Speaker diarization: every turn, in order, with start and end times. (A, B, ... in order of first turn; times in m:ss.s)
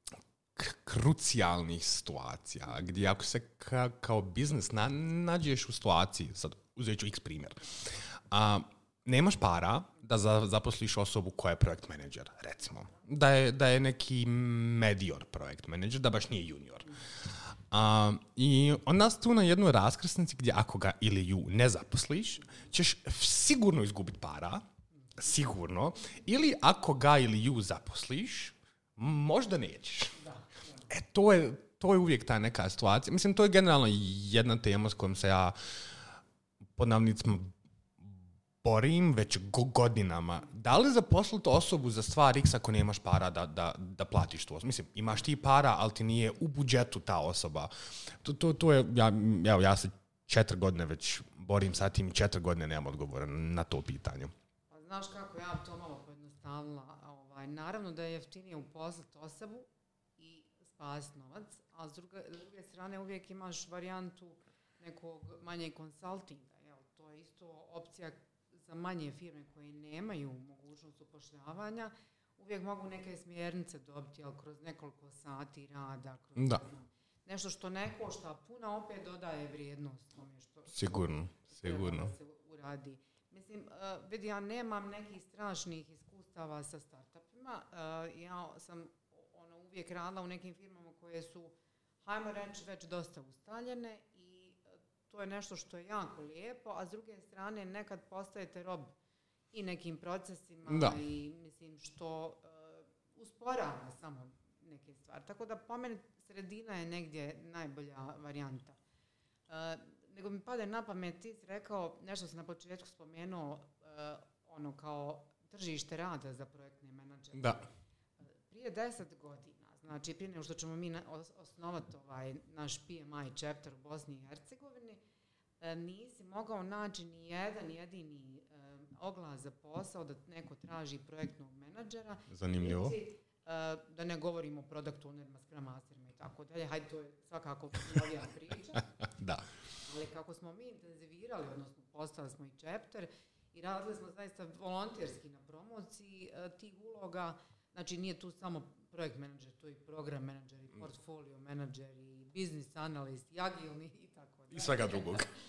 0:00.6-0:17.0 A
0:17.7-0:24.6 A
0:25.2-0:30.2 A
0:30.2-0:30.9 B
0:30.9-0:35.6 A
0:36.8-0:54.3 A
0:54.7-1:39.0 B
1:20.7-1:22.1 A
1:39.5-1:48.8 B
1:40.7-1:41.0 A
1:49.5-1:57.7 B
1:57.4-1:57.6 A
1:58.5-2:05.0 B
2:05.6-2:18.9 B
2:12.3-2:13.0 A
2:19.0-2:19.4 A
2:19.8-2:35.3 B
2:34.5-2:35.3 A